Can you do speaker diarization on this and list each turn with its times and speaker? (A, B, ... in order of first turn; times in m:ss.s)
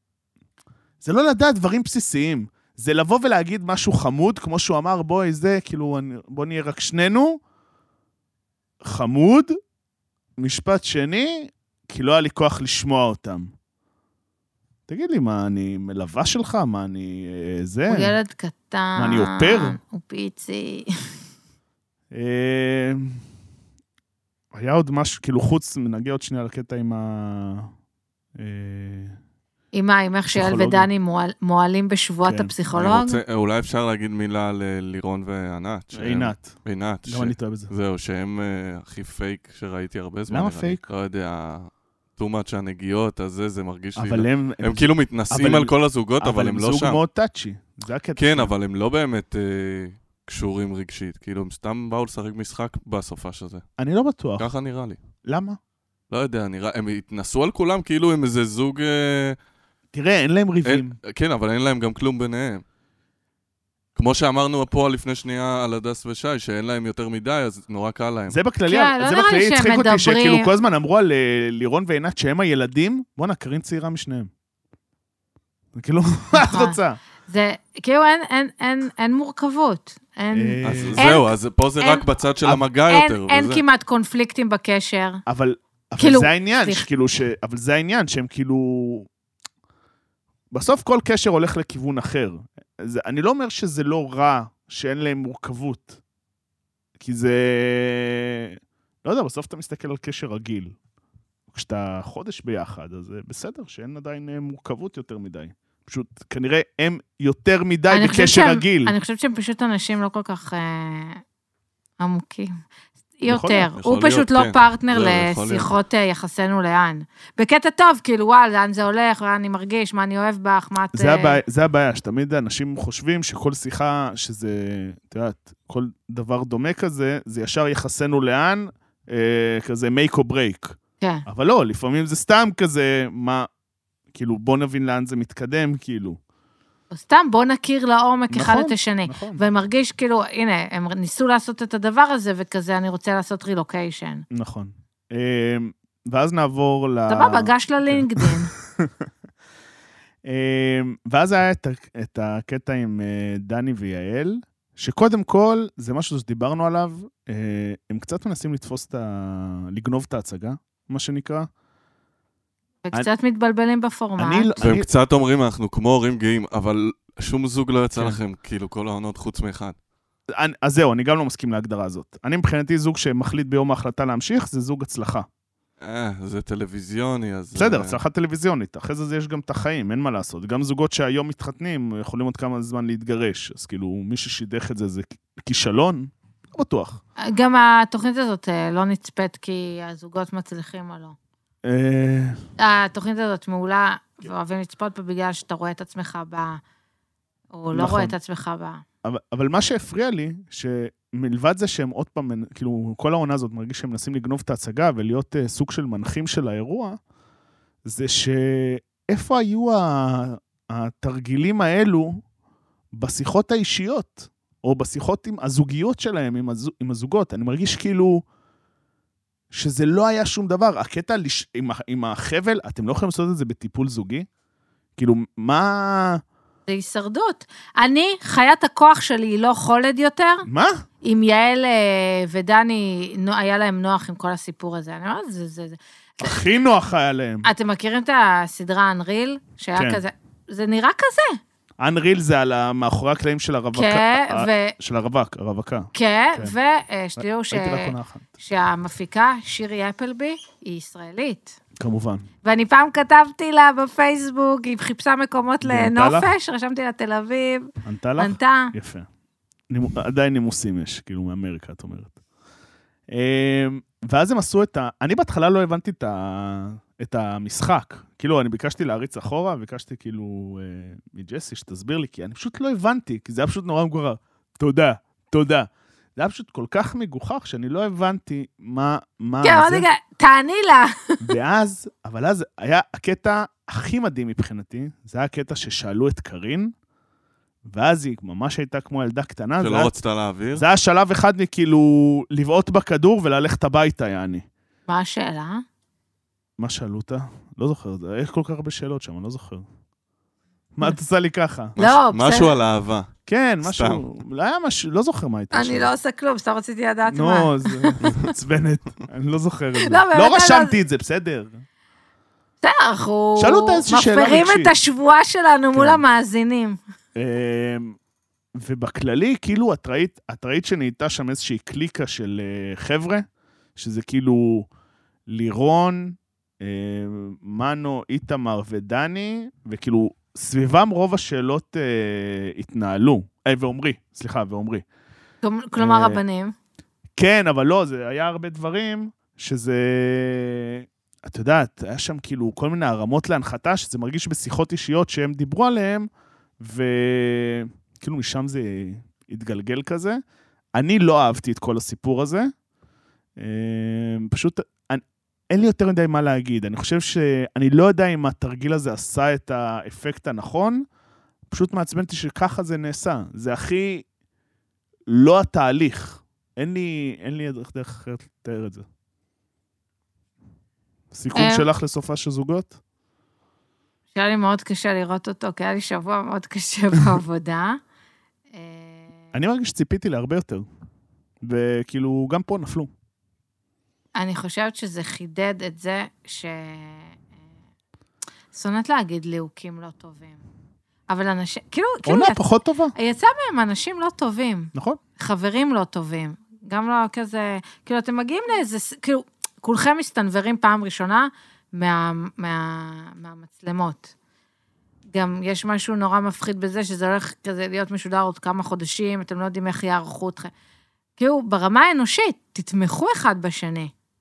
0:01.0-0:07.4 A
0:08.8-0:09.5 A
0:10.4-0:13.5 A
0:14.9-0:18.2 A
0:17.9-0:20.9 B
0:19.0-0:19.8 A
0:22.1-0:23.2 A
0:24.5-0:27.7 A
0:28.4-0:29.2 A
0:29.7-0:33.2 B
0:30.3-0:30.9 A
0:32.2-0:32.5 A
0:32.7-0:47.0 C
0:35.9-0:36.6 A
0:37.1-0:37.7 A
0:40.3-0:40.8 A
0:44.0-0:48.5 A
0:48.2-0:53.6 C
0:53.8-0:54.5 A
0:54.4-0:55.0 C
0:55.2-0:55.6 A
0:56.1-0:59.4 C
0:59.9-1:00.9 A
1:00.6-1:02.6 C
1:04.0-1:08.4 C
1:08.3-1:14.3 A
1:08.7-1:10.5 B
1:15.7-1:17.0 A
1:16.3-1:22.0 B
1:20.3-1:21.0 A
1:20.6-1:23.6 C
1:22.9-1:25.2 B
1:25.3-1:29.1 A
1:26.0-1:26.8 B
1:30.5-1:36.0 A
1:37.0-1:40.7 A
1:41.5-1:48.9 A
1:47.9-1:51.2 B
1:52.0-1:52.5 B
1:53.2-2:01.4 B
1:53.2-1:53.7 A
1:53.8-1:55.7 C
2:00.9-2:13.5 A
2:11.0-2:11.2 B
2:14.1-2:16.2 A
2:16.9-2:24.2 B
2:18.3-2:19.4 A
2:24.3-2:29.1 A
2:27.1-2:28.5 B
2:30.2-2:41.5 A
2:42.8-2:44.5 B
2:44.2-2:44.9 A
2:44.6-2:49.8 C
2:48.0-2:48.2 A
2:50.3-2:55.3 A
2:55.8-2:58.0 C
2:57.5-3:07.0 A
3:07.2-3:11.2 B
3:11.6-3:12.4 A
3:12.6-3:16.6 B
3:17.5-3:18.8 B
3:17.7-3:18.1 A
3:19.0-3:27.0 A
3:27.8-3:32.2 A
3:32.9-3:38.2 A
3:39.5-3:44.3 A
3:45.0-3:46.2 A
3:46.7-3:50.5 B
3:50.4-3:50.8 A
3:51.0-3:56.4 B
3:56.2-3:57.5 A
3:57.4-4:01.4 B
3:59.8-4:00.0 A
4:01.8-4:06.5 A
4:03.7-4:04.7 B
4:05.9-4:11.6 B
4:07.2-4:08.3 A
4:11.8-4:12.3 A
4:12.4-4:18.7 B
4:15.6-4:16.3 A
4:17.8-4:19.1 A
4:19.7-4:22.1 A
4:23.1-4:39.9 A
4:39.4-4:41.2 B
4:41.2-4:46.7 A
4:47.6-4:49.9 A
4:49.6-4:50.6 C
4:50.5-4:54.4 A
4:54.9-4:55.6 B
4:56.6-4:59.6 A
5:00.8-5:01.8 A
5:01.8-5:03.1 C
5:01.8-5:02.5 B
5:03.3-5:05.9 A
5:03.6-5:04.0 C
5:05.5-5:08.1 B
5:07.1-5:11.6 A
5:09.8-5:10.7 B
5:12.6-5:16.8 B
5:13.4-5:14.7 A
5:15.7-5:16.0 A
5:17.1-5:18.0 A
5:18.6-5:23.2 A
5:23.8-5:24.7 A
5:25.3-5:34.8 A
5:35.4-5:36.5 B
5:35.8-5:36.2 A
5:37.2-5:46.1 A
5:46.6-5:50.2 A
5:50.8-5:52.5 A
5:53.4-6:00.8 A
6:01.5-6:04.0 A
6:05.1-6:08.8 A
6:11.1-6:12.8 A
6:11.3-6:11.6 B
6:14.1-6:17.8 B
6:18.5-6:19.1 B
6:19.3-6:20.6 A
6:21.4-6:22.9 A
6:24.2-6:27.2 B
6:28.5-6:30.4 B
6:31.1-6:32.4 B
6:32.0-6:32.9 A
6:33.0-6:44.1 B
6:34.7-6:35.0 A
6:45.1-6:50.5 B
6:51.2-6:53.9 B